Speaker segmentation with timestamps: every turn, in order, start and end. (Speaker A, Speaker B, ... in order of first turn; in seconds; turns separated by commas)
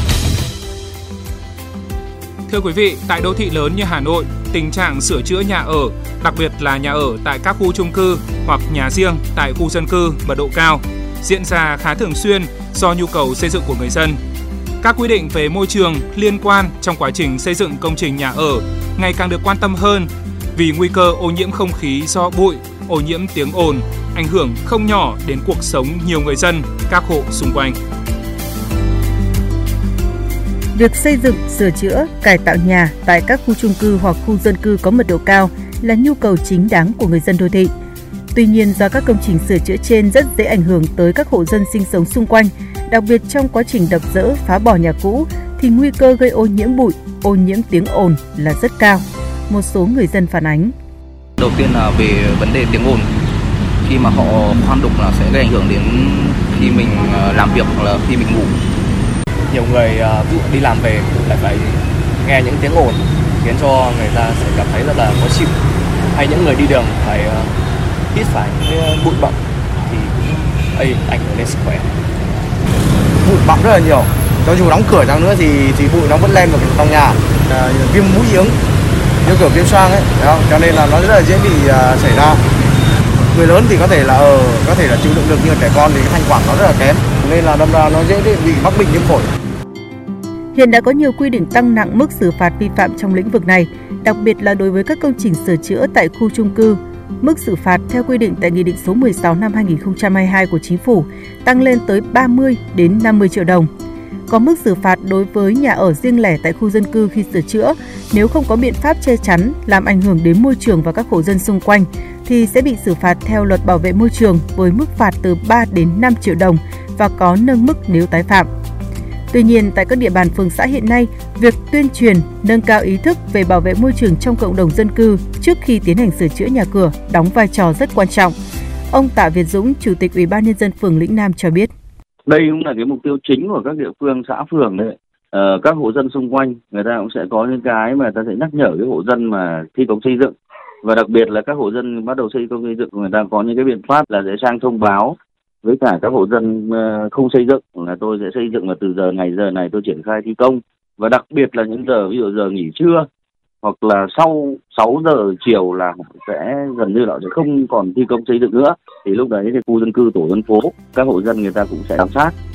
Speaker A: 2.5-14.2, Speaker A: 14.8-27.8, Speaker B: 30.8-37.7, Speaker B: 38.3-50.7, Speaker C: 51.4-53.1, Speaker C: 53.9-58.5, Speaker D: 59.5-65.5, Speaker D: 66.1-67.5, Speaker D: 68.1-71.9, Speaker E: 73.2-78.6, Speaker E: 79.2-82.4, Speaker E: 83.3-89.3, Speaker B: 90.5-103.7, Speaker B: 104.3-118.5, Speaker B: 119.3-128.3, Speaker B: 128.9-131.7, Speaker F: 132.3-140.3, Speaker F: 140.8-153.1, Speaker F: 153.6-162.3